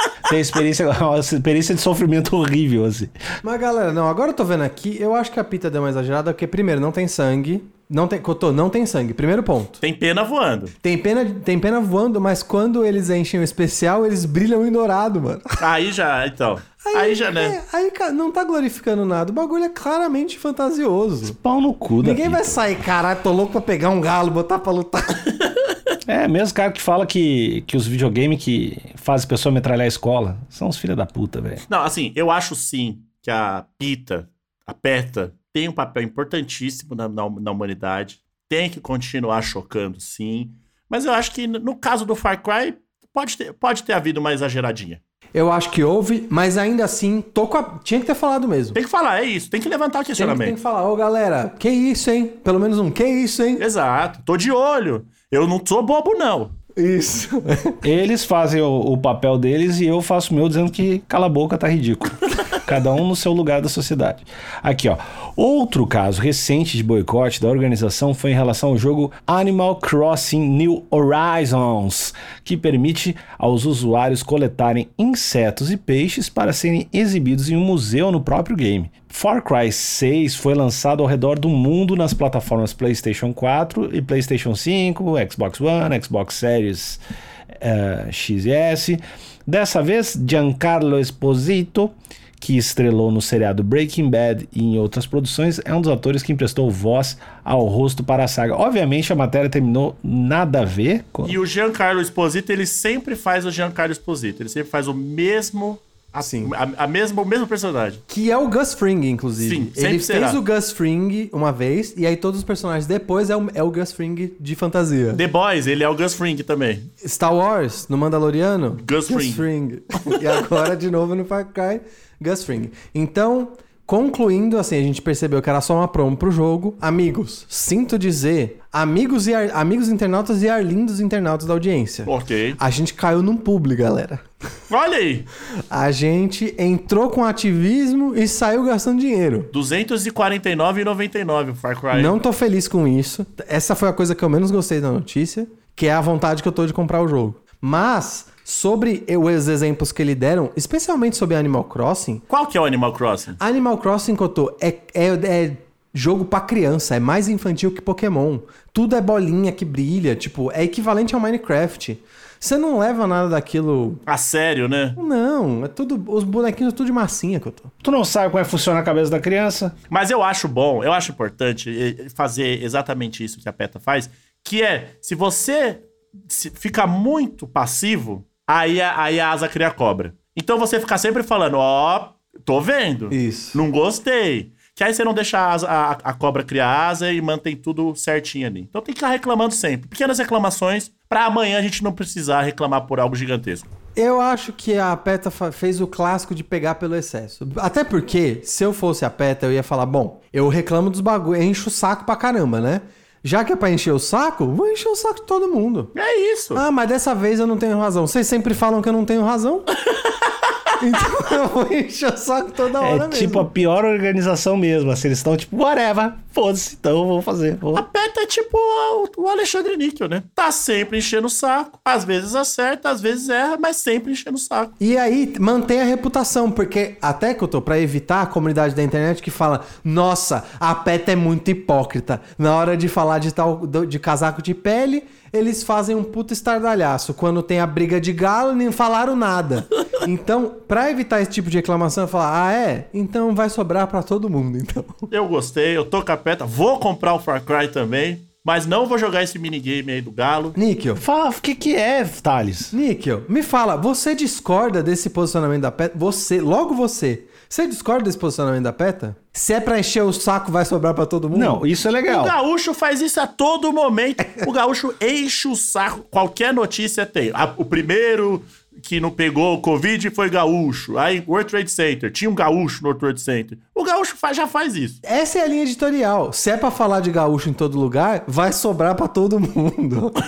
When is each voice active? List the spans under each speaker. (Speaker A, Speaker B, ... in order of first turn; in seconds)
Speaker A: 0.3-3.1, 21.2-22.6, 26.1-31.6, 57.8-87.0, 87.6-101.4, 167.8-169.8, 212.8-217.9, 251.0-252.7, 261.3-262.4
Speaker B: 3.4-9.8, 10.8-15.6, 16.8-21.4, 22.0-25.3, 45.4-48.8, 50.2-53.6, 56.8-57.8, 106.2-106.5, 108.1-115.2, 117.0-134.2, 135.7-139.5, 141.9-152.2, 153.4-164.0, 165.0-167.7, 183.1-183.6, 194.0-205.9, 206.6-209.7, 210.8-213.5, 224.8-245.1, 250.6-251.0, 252.7-261.6, 275.0-280.2
Speaker C: 9.8-10.7, 15.6-17.6, 31.7-45.0, 48.8-50.6, 53.6-56.5, 101.2-108.0, 109.4-110.4, 115.2-116.9, 118.8-119.5, 132.1-132.6, 134.7-135.3, 139.5-142.2, 152.3-153.4, 164.1-165.0, 169.9-193.7, 205.9-206.6, 217.8-224.7, 245.1-250.6, 262.1-275.0